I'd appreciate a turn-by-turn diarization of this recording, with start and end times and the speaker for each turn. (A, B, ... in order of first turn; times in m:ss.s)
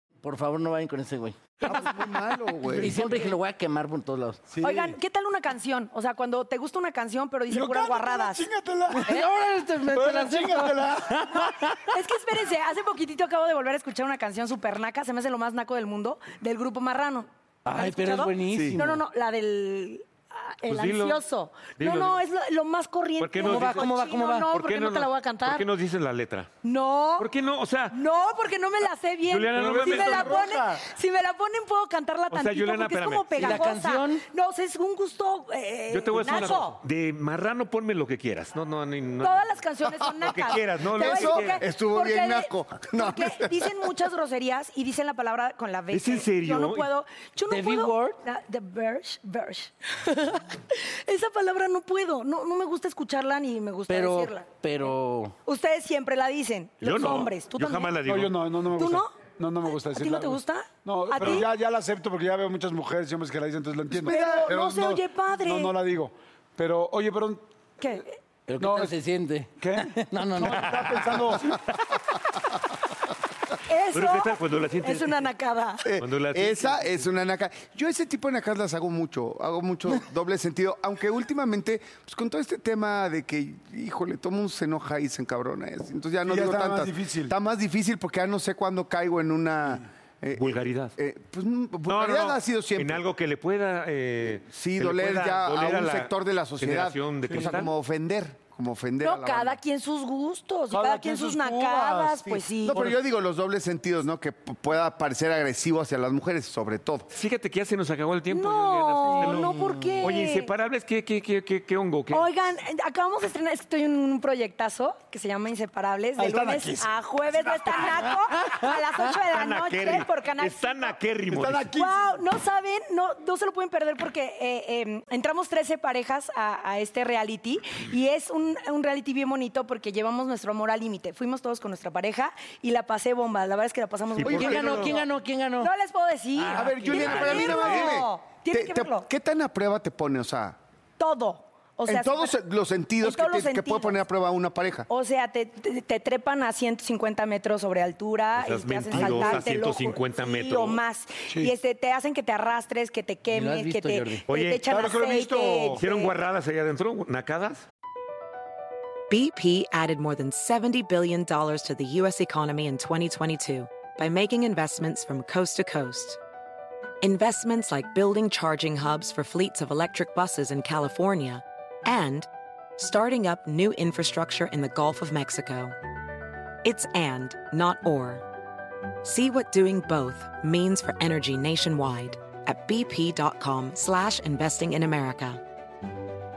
0:00.2-0:01.6 A
0:01.6-0:03.0 B
0:02.8-0:04.4 A
0:02.8-0:03.1 C
0:04.5-0:05.0 C
0:04.6-0:08.5 D
0:07.5-0:09.1 C
0:08.9-0:11.9 A
0:09.9-0:11.3 C
0:11.9-0:25.6 D
0:17.6-0:19.0 A
0:20.7-0:21.2 E
0:21.8-0:22.2 E
0:23.2-0:24.0 E
0:23.4-0:24.5 A
0:24.5-0:26.5 E
0:26.6-0:27.3 D
0:27.2-0:28.0 E
0:27.9-0:36.8 D
0:29.3-0:30.5 E
0:29.5-0:30.9 C
0:32.3-0:33.7 E
0:33.4-0:34.2 A
0:35.9-0:41.6 E
0:39.2-0:54.5 D
0:40.9-0:44.0 B
0:45.9-0:46.9 E
0:47.5-0:48.2 A
0:53.9-0:55.4 A
0:55.5-0:58.0 D
0:56.8-0:58.5 E
0:58.0-1:07.4 C
0:58.8-1:01.5 D
1:04.0-1:05.8 D
1:07.8-1:08.1 D
1:08.5-1:10.9 A
1:08.6-1:08.9 C
1:09.6-1:11.6 C
1:10.6-1:11.2 E
1:13.7-1:15.9 D
1:13.9-1:15.3 E
1:15.8-1:33.0 B
1:16.0-1:17.0 E
1:26.2-1:27.3 C
1:30.4-1:30.9 E
1:31.9-1:37.7 E
1:34.5-1:39.6 B
1:37.3-1:37.5 C
1:39.0-1:42.9 D
1:40.7-1:42.9 C
1:42.6-1:47.1 B
1:47.1-1:52.3 E
1:48.3-1:50.5 D
1:49.3-1:49.9 A
1:52.1-2:01.0 D
1:56.2-1:57.9 C
1:59.3-2:01.7 E
2:01.3-2:02.2 C
2:01.7-2:15.1 D
2:14.2-2:15.7 A
2:15.6-2:19.1 D
2:16.4-2:18.0 A
2:16.5-2:20.6 B
2:21.0-2:22.3 D
2:21.9-2:24.9 B
2:23.0-2:24.0 D
2:24.9-2:36.1 D
2:28.4-2:30.8 E
2:29.0-2:29.3 C
2:31.3-2:31.5 C
2:33.3-2:34.3 A
2:34.3-2:34.6 E
2:34.7-2:35.8 C
2:35.8-2:37.6 E
2:39.1-2:46.2 F
2:47.0-2:55.8 F
2:56.6-2:58.2 F
2:59.0-3:05.4 F